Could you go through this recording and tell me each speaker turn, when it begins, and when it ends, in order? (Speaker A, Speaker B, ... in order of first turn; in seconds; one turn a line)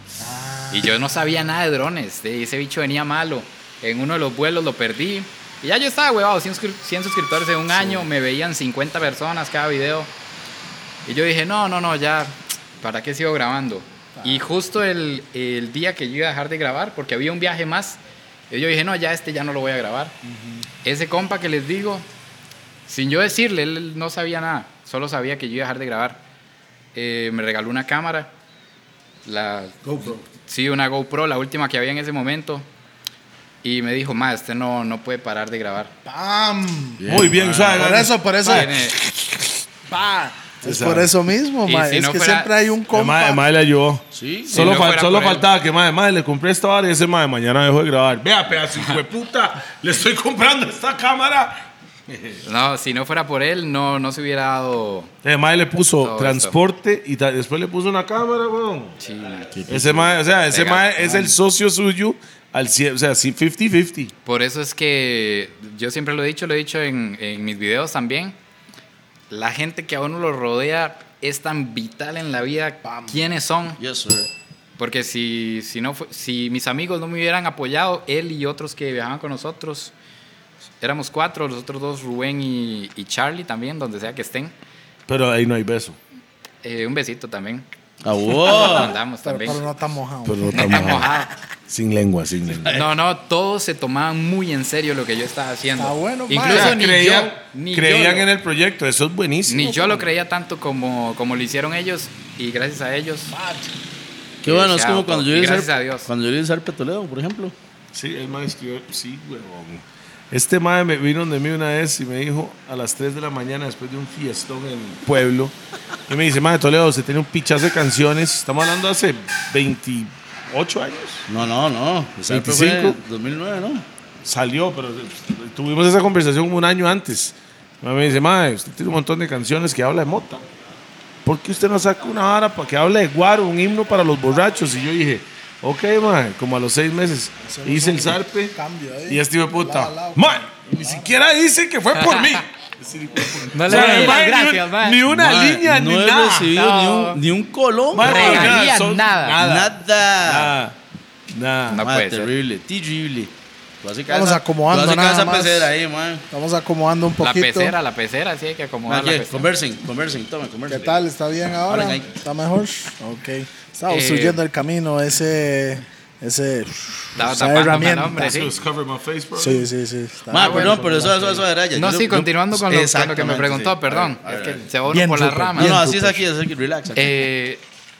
Speaker A: 0.2-1.0
Speaker B: 0.7-10.1
Speaker B: 11.0-18.0
Speaker A: 14.2-14.5
Speaker B: 18.5-20.1
Speaker A: 20.3-20.6
Speaker B: 20.8-22.1
Speaker B: 22.9-26.2
Speaker B: 26.9-28.3
Speaker B: 29.2-29.8
Speaker C: 29.8-30.2
Speaker B: 30.3-32.7
Speaker B: 33.6-35.9
Speaker A: 36.0-38.7
Speaker D: 37.0-37.9
Speaker C: 37.1-39.4
Speaker B: 38.5-39.0
Speaker A: 39.9-43.4
Speaker C: 40.6-41.1
Speaker B: 41.6-42.5
Speaker C: 42.9-52.4
Speaker D: 44.1-44.8
Speaker B: 44.5-45.5
Speaker B: 52.4-55.1
Speaker C: 55.2-59.0
Speaker B: 56.0-56.6
Speaker B: 59.0-59.5
Speaker D: 59.5-60.2
Speaker C: 59.7-64.1
Speaker B: 60.5-61.3
Speaker B: 64.2-68.4
Speaker B: 69.3-73.8
Speaker A: 72.8-73.3
Speaker D: 73.8-74.3
Speaker B: 74.8-79.9
Speaker B: 80.8-84.5
Speaker C: 85.1-86.0
Speaker B: 86.6-87.6
Speaker D: 88.0-88.9
Speaker B: 88.3-89.6
Speaker A: 89.2-91.2
Speaker C: 90.2-91.1
Speaker B: 90.5-91.3
Speaker C: 91.7-92.8
Speaker D: 92.5-92.8
Speaker B: 92.7-98.3
Speaker A: 95.8-96.8
Speaker C: 96.4-100.1
Speaker B: 99.5-103.3
Speaker A: 103.3-103.7
Speaker D: 104.4-107.5
Speaker B: 104.4-106.1
Speaker C: 107.9-115.5
Speaker C: 116.1-121.2
Speaker D: 121.3-123.8
Speaker C: 122.3-123.0
Speaker C: 124.2-130.4
Speaker C: 131.2-138.5
Speaker A: 137.4-141.1
Speaker C: 139.1-146.5
Speaker B: 142.0-142.4
Speaker B: 143.5-145.0
Speaker D: 143.7-144.2
Speaker D: 145.1-148.7
Speaker B: 146.5-147.2
Speaker C: 147.9-150.8
Speaker B: 148.0-149.4
Speaker D: 149.4-150.6
Speaker C: 151.3-151.8
Speaker B: 151.7-152.3
Speaker D: 151.8-156.2
Speaker A: 154.1-155.7
Speaker A: 156.3-157.7
Speaker B: 157.2-159.5
Speaker D: 158.9-161.0
Speaker A: 160.7-168.5
Speaker D: 161.7-162.1
Speaker B: 163.9-164.4
Speaker B: 167.1-168.5
Speaker C: 168.1-169.7
Speaker A: 169.3-171.4
Speaker D: 170.3-174.7
Speaker B: 170.3-171.0
Speaker B: 171.7-175.8
Speaker A: 174.9-176.2
Speaker D: 175.6-177.2
Speaker B: 176.9-177.6